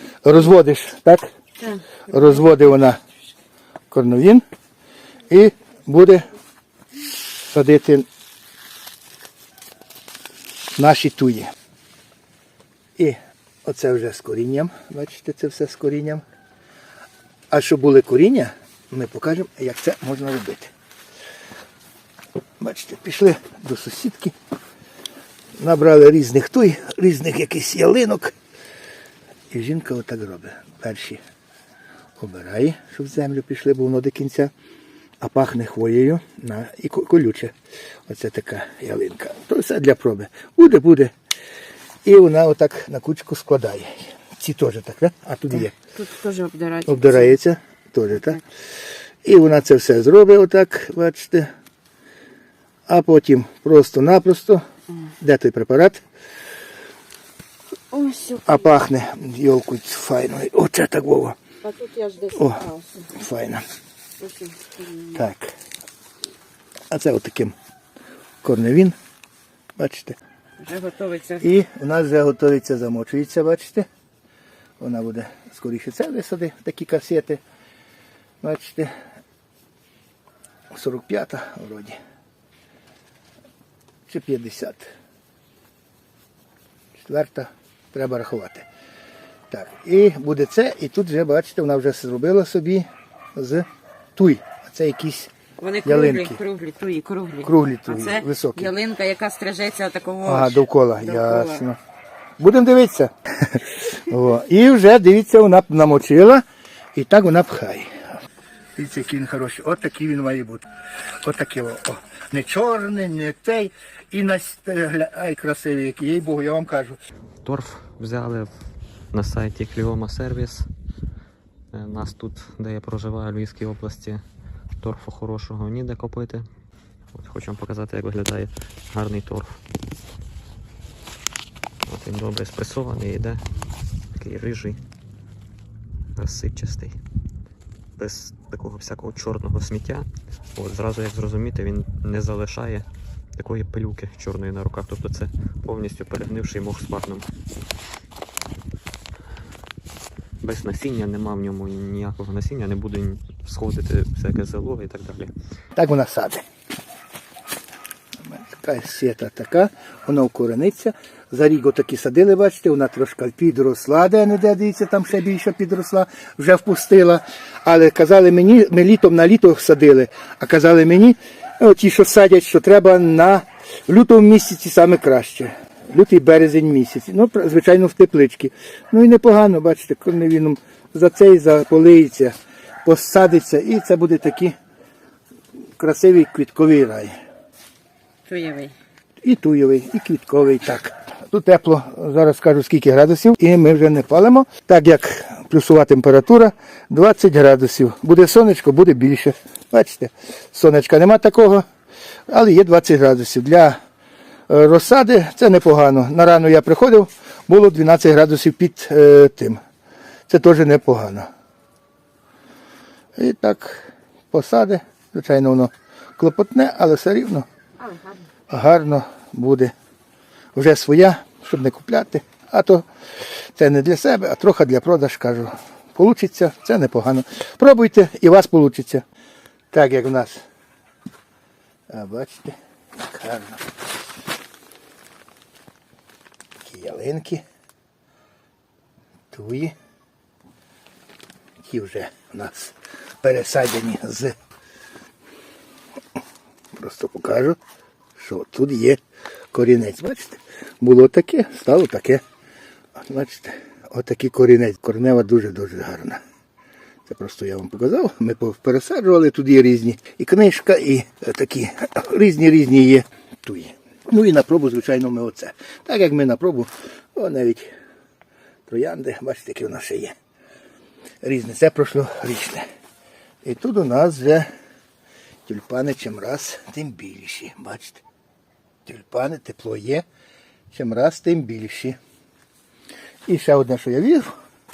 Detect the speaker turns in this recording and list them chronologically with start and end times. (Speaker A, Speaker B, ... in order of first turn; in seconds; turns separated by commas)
Speaker A: 0.2-1.3, Speaker A: 2.1-3.0, Speaker A: 3.9-4.4, Speaker A: 5.3-6.3, Speaker A: 7.5-8.1, Speaker A: 10.8-11.5, Speaker A: 13.0-16.2, Speaker A: 17.5-20.7, Speaker A: 22.6-24.3, Speaker A: 25.6-28.3, Speaker A: 29.5-31.2, Speaker A: 32.2-34.5, Speaker A: 35.2-37.5, Speaker A: 38.1-41.1, Speaker A: 42.0-45.7, Speaker B: 45.9-47.4, Speaker A: 46.9-48.4, Speaker A: 49.2-51.5, Speaker A: 52.9-54.6, Speaker A: 55.2-56.0, Speaker B: 57.9-58.6, Speaker A: 58.4-61.4, Speaker B: 61.6-63.1, Speaker A: 62.3-63.6, Speaker B: 64.2-65.2, Speaker A: 65.0-65.5, Speaker A: 66.9-67.5, Speaker A: 68.4-69.0, Speaker A: 69.8-70.2, Speaker B: 70.6-71.4, Speaker A: 71.4-73.9, Speaker A: 74.8-77.4, Speaker A: 78.4-78.9, Speaker A: 80.7-82.0, Speaker A: 84.1-84.9, Speaker A: 87.0-88.7, Speaker A: 89.5-95.3, Speaker B: 95.6-101.6, Speaker A: 95.8-96.4, Speaker A: 97.4-98.7, Speaker A: 100.2-101.8, Speaker A: 102.4-106.4, Speaker A: 106.9-107.9, Speaker A: 108.8-110.7, Speaker A: 111.2-117.0, Speaker C: 117.4-118.6, Speaker C: 119.1-120.7, Speaker C: 121.7-124.2, Speaker C: 124.8-126.5, Speaker C: 127.1-129.6, Speaker C: 131.9-133.4, Speaker C: 134.1-134.8, Speaker C: 136.2-137.0, Speaker C: 138.0-147.3, Speaker C: 150.4-155.3, Speaker A: 155.8-156.4, Speaker A: 158.3-184.6, Speaker A: 185.8-187.2, Speaker B: 188.2-188.7, Speaker A: 189.2-201.6, Speaker A: 202.3-203.8, Speaker A: 204.5-209.6, Speaker A: 210.3-211.3, Speaker A: 213.2-217.4, Speaker A: 218.5-219.7, Speaker A: 220.5-222.8, Speaker A: 223.6-229.0, Speaker A: 229.7-230.4, Speaker A: 231.9-233.7, Speaker A: 236.6-237.4, Speaker A: 239.3-239.7, Speaker A: 241.6-244.3, Speaker A: 246.7-247.6, Speaker A: 248.2-249.0, Speaker A: 249.5-252.2, Speaker A: 253.0-256.2, Speaker A: 257.1-267.7, Speaker A: 268.7-270.1, Speaker A: 271.2-272.6, Speaker A: 273.4-274.5, Speaker A: 275.4-278.0, Speaker A: 278.9-280.0, Speaker A: 280.7-282.0, Speaker A: 283.3-284.3